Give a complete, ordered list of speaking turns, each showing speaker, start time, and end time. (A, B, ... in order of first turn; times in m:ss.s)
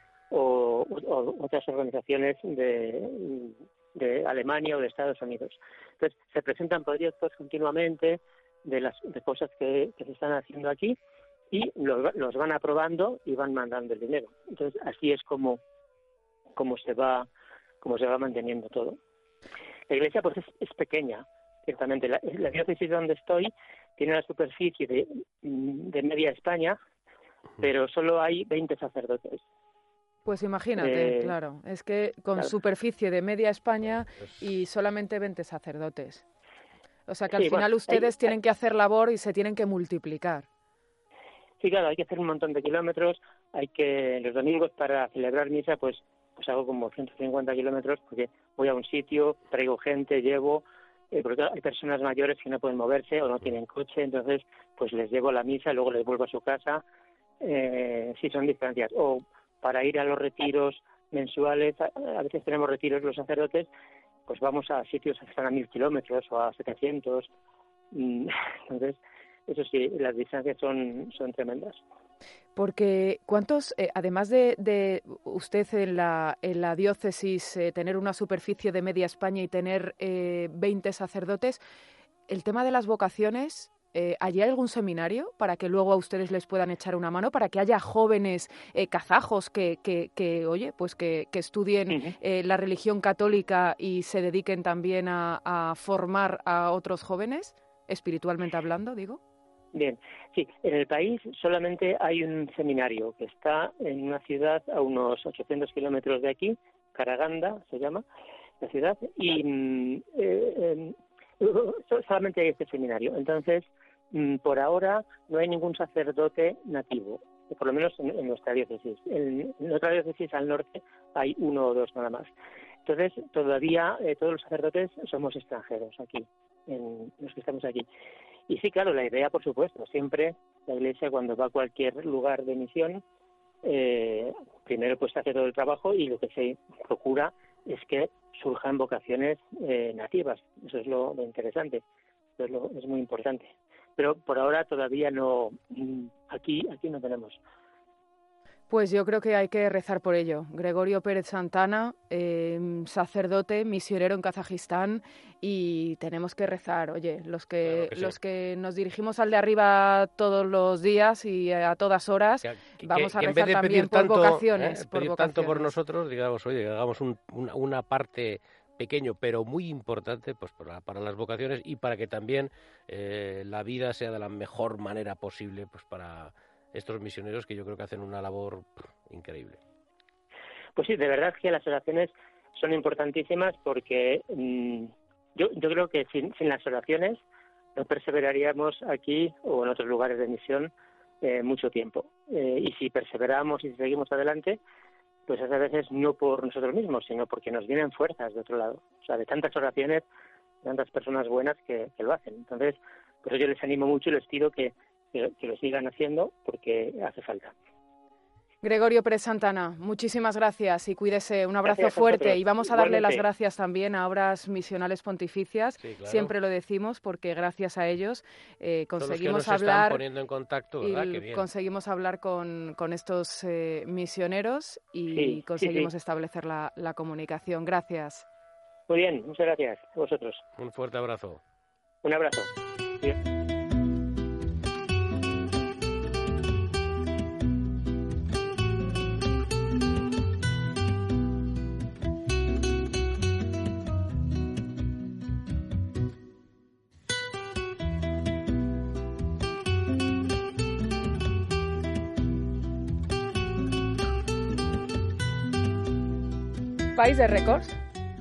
0:00.3-0:11.0 A
0:11.5-0:15.6 A
0:16.6-0:17.3 A
0:17.8-0:19.0 A
0:19.9-0:26.8 A
0:27.6-0:29.4 A
0:30.2-0:36.2 B
0:30.8-0:31.3 A
0:37.1-0:40.4 B
0:37.3-0:38.1 A
0:41.6-0:56.8 A
0:57.4-1:03.7 A
1:04.3-1:07.3 A
1:07.9-1:11.8 A
1:12.6-1:21.6 B
1:22.3-1:39.2 B
1:39.7-1:48.0 A
1:48.6-2:02.3 A
2:02.8-2:07.8 A
2:08.5-2:13.0 A
2:13.6-2:21.8 A
2:22.4-2:27.4 A
2:28.7-2:45.7 B
2:37.6-2:38.1 C
2:42.4-2:59.6 C
3:00.8-3:07.2 A
3:07.7-3:10.7 A
3:11.2-3:14.6 A
3:15.3-3:20.0 A
3:20.6-3:27.5 A
3:28.6-3:40.0 B
3:31.6-3:33.2 A
3:35.8-3:36.3 C
3:39.0-3:41.5 C
3:40.8-3:48.2 B
3:45.1-3:45.9 A
3:48.9-3:50.4 A
3:50.6-3:51.4 C
3:52.0-3:52.5 A
4:16.9-4:17.8 B